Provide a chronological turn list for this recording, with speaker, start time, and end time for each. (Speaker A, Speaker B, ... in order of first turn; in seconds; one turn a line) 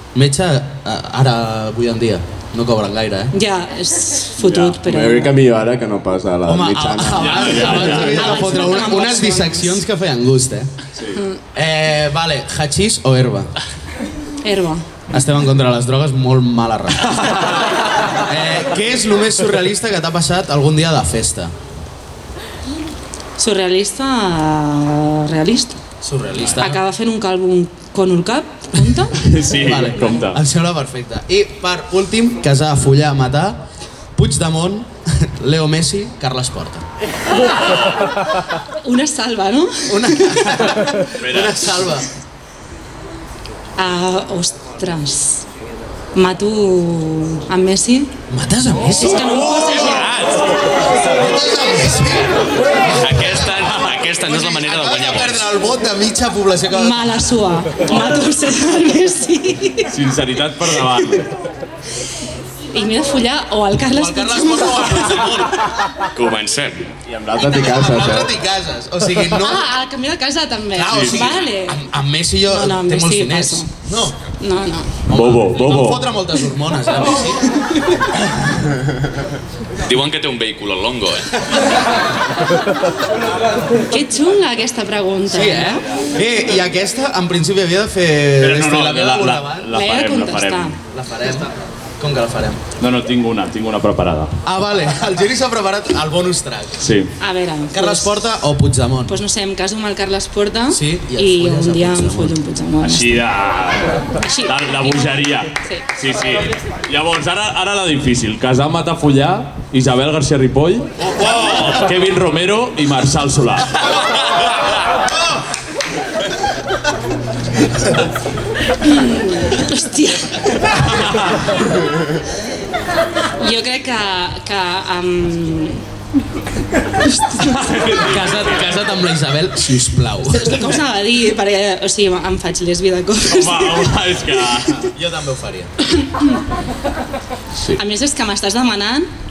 Speaker A: 0.1-3.3
Speaker B: 3.3-5.3
Speaker C: 4.4-4.8
Speaker D: 4.8-8.2
Speaker A: 6.5-10.7
Speaker C: 7.2-8.2
Speaker B: 7.6-9.8
Speaker C: 10.9-11.2
Speaker A: 11.5-13.5
Speaker B: 14.4-14.8
Speaker A: 15.1-21.5
Speaker B: 23.4-25.8
Speaker A: 26.0-26.8
Speaker B: 26.5-29.2
Speaker C: 29.2-30.4
Speaker A: 29.4-33.6
Speaker A: 34.1-36.9
Speaker C: 37.3-38.0
Speaker B: 38.8-40.6
Speaker A: 39.9-42.1
Speaker C: 41.2-41.8
Speaker B: 43.8-45.4
Speaker B: 46.1-48.1
Speaker A: 48.3-50.1
Speaker B: 49.0-50.2
Speaker E: 49.8-50.6
Speaker A: 51.0-57.4
Speaker E: 53.0-55.5
Speaker B: 56.7-59.9
Speaker C: 59.9-61.3
Speaker B: 62.7-65.3
Speaker A: 63.9-65.7
Speaker E: 66.1-66.8
Speaker D: 67.2-68.3
Speaker A: 67.4-69.7
Speaker B: 69.4-71.8
Speaker A: 70.7-74.2
Speaker C: 70.9-71.2
Speaker B: 72.4-73.7
Speaker B: 74.4-74.9
Speaker A: 75.1-77.5
Speaker C: 75.1-76.1
Speaker E: 79.8-81.5
Speaker B: 83.8-85.8
Speaker A: 85.3-89.7
Speaker C: 88.4-90.8
Speaker B: 89.7-90.8
Speaker A: 90.9-92.6
Speaker C: 92.8-94.3
Speaker A: 94.4-96.8
Speaker C: 96.8-97.1
Speaker B: 97.2-98.1
Speaker A: 97.7-99.2
Speaker B: 99.1-103.2
Speaker A: 100.7-102.4
Speaker C: 102.8-113.9
Speaker B: 104.2-105.8
Speaker B: 118.8-121.0
Speaker B: 123.4-125.8
Speaker B: 127.0-128.0
Speaker C: 127.4-128.7
Speaker A: 127.9-130.7
Speaker B: 130.3-133.9
Speaker C: 133.3-134.9
Speaker A: 134.9-135.7
Speaker B: 136.0-136.4
Speaker B: 137.8-139.1